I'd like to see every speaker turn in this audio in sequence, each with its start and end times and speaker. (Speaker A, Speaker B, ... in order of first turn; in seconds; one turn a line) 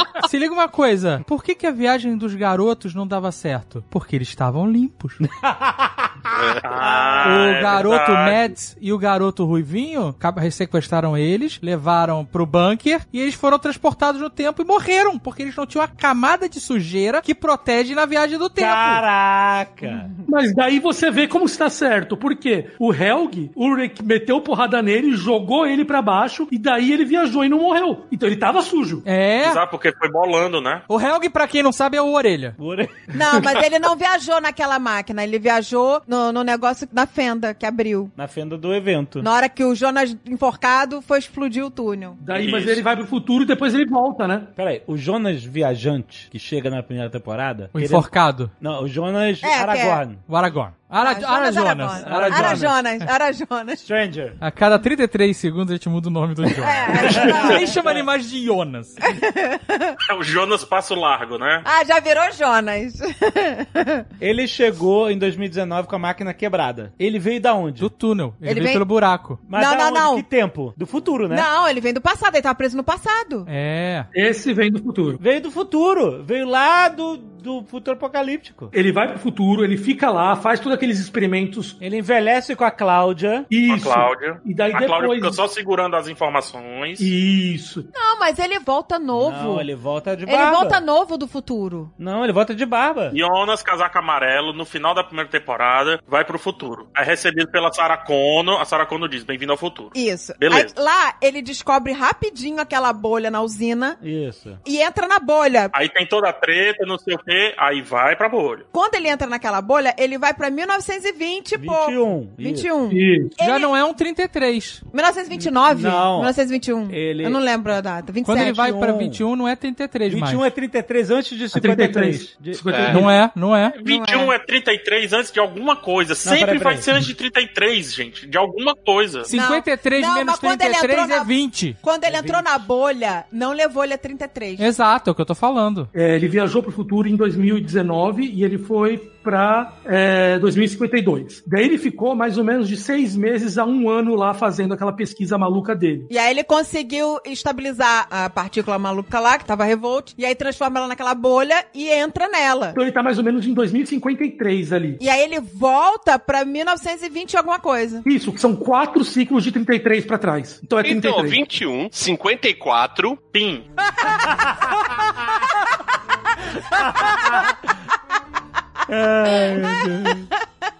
Speaker A: 0.2-5.2
Speaker B: 5.2-7.4
Speaker C: 6.3-6.6
Speaker D: 6.6-8.5
Speaker A: 7.2-19.0
Speaker B: 18.6-20.1
Speaker E: 20.3-29.0
Speaker A: 29.0-29.6
Speaker D: 29.4-30.8
Speaker A: 30.9-32.5
Speaker B: 32.6-32.9
Speaker F: 33.1-38.1
Speaker B: 38.2-39.3
Speaker F: 39.2-42.2
Speaker E: 42.2-44.5
Speaker D: 42.3-42.8
Speaker B: 44.6-50.2
Speaker A: 47.7-48.5
Speaker F: 49.4-50.0
Speaker A: 50.3-53.1
Speaker F: 51.0-53.8
Speaker B: 52.0-52.8
Speaker B: 53.8-54.4
Speaker A: 54.4-59.0
Speaker F: 56.6-57.7
Speaker B: 57.0-58.0
Speaker F: 59.0-60.0
Speaker D: 60.0-61.6
Speaker F: 61.6-64.0
Speaker B: 64.2-67.9
Speaker A: 67.8-69.4
Speaker F: 68.4-68.8
Speaker B: 69.5-71.5
Speaker F: 69.5-70.2
Speaker F: 71.3-73.5
Speaker A: 73.5-74.1
Speaker E: 74.1-75.2
Speaker B: 75.2-78.7
Speaker E: 78.7-81.8
Speaker B: 81.8-83.5
Speaker E: 83.5-85.4
Speaker D: 83.7-87.1
Speaker E: 87.0-87.9
Speaker F: 87.9-89.7
Speaker B: 89.1-90.8
Speaker F: 90.3-91.9
Speaker B: 92.0-93.2
Speaker D: 93.1-100.7
Speaker F: 99.9-104.0
Speaker B: 104.0-104.6
Speaker F: 104.6-105.7
Speaker D: 105.7-108.6
Speaker F: 108.7-113.7
Speaker B: 111.5-112.7
Speaker E: 112.9-113.3
Speaker A: 113.4-114.8
Speaker F: 114.9-118.6
Speaker B: 115.3-116.3
Speaker B: 116.9-117.4
Speaker A: 118.2-120.5
Speaker B: 118.4-119.2
Speaker B: 120.1-122.6
Speaker E: 121.5-123.1
Speaker C: 122.7-123.0
Speaker A: 122.9-123.7
Speaker D: 123.8-129.3
Speaker F: 123.8-124.3
Speaker B: 126.2-126.8
Speaker A: 129.2-131.8
Speaker F: 129.3-134.7
Speaker B: 132.0-132.6
Speaker A: 134.6-135.9
Speaker E: 135.9-146.1
Speaker F: 146.1-152.8
Speaker E: 152.7-155.0
Speaker F: 155.0-158.0
Speaker E: 158.0-161.4
Speaker C: 160.8-163.2
Speaker D: 163.3-163.7
Speaker B: 164.4-164.7
Speaker B: 166.7-167.4
Speaker F: 167.0-167.3
Speaker B: 168.9-170.3
Speaker F: 169.4-170.1